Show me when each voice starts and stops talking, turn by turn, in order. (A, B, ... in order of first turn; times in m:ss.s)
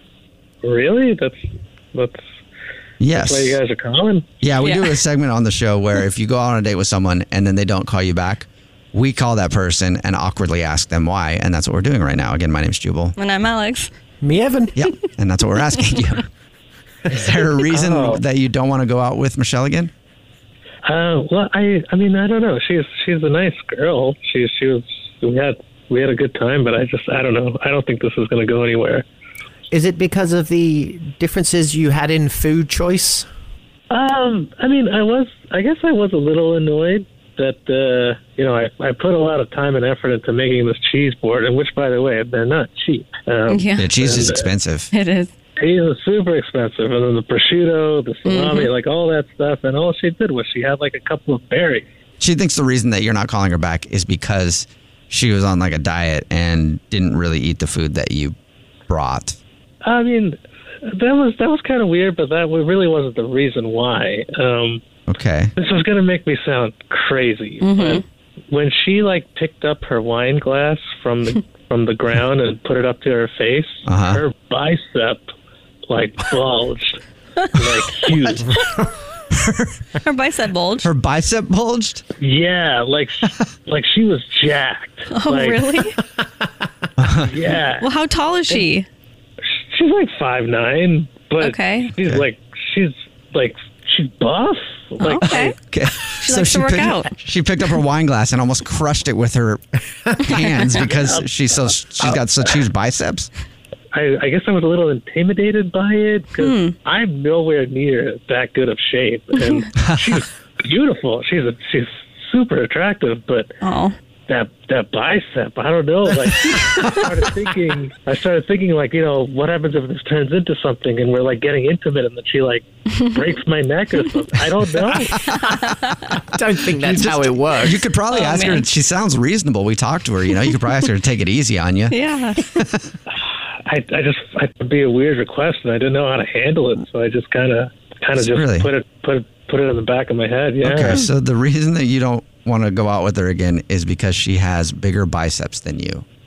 0:00.6-0:02.2 A
0:03.0-0:03.6 B
0:03.1-0:04.3 A
0:04.4-0:13.2 B
0:04.6-0:04.9 C
0:13.2-0:13.9 C
0:14.2-0:14.8 D
0:14.8-0:16.2 B
0:17.1-0:19.9 B
0:17.7-0:18.2 A
0:20.8-0:29.1 A
0:29.7-0:33.3 D
0:33.9-0:44.5 A
0:43.5-0:43.9 C
0:43.8-0:44.9 B
0:44.9-0:45.3 C
0:45.6-0:51.9 A
0:48.3-0:48.7 C
0:52.2-0:58.4 B
0:58.9-0:59.4 B
0:59.8-1:04.8 A
1:05.1-1:05.5 B
1:05.6-1:15.3 A
1:07.6-1:08.0 C
1:13.9-1:14.2 B
1:15.9-1:17.0 A
1:17.6-1:18.4 A
1:19.3-1:19.8 B
1:20.0-1:20.9 C
1:20.8-1:22.0 B
1:22.2-1:25.7 A
1:25.1-1:26.0 C
1:27.0-1:27.3 B
1:27.1-1:27.9 A
1:27.8-1:28.9 C
1:29.7-1:35.5 A
1:31.4-1:31.9 C
1:35.0-1:35.6 C
1:35.2-1:43.3 B
1:36.2-1:37.1 C
1:40.9-1:41.3 A
1:43.9-1:53.5 A
1:46.4-1:46.7 C
1:49.9-1:50.2 B
1:53.6-1:54.0 C
1:54.3-2:05.3 A
2:06.3-2:07.9 D
2:06.8-2:12.9 B
2:08.1-2:08.7 C
2:11.9-2:12.4 C
2:13.7-2:21.0 A
2:18.2-2:18.7 B
2:20.6-2:26.0 B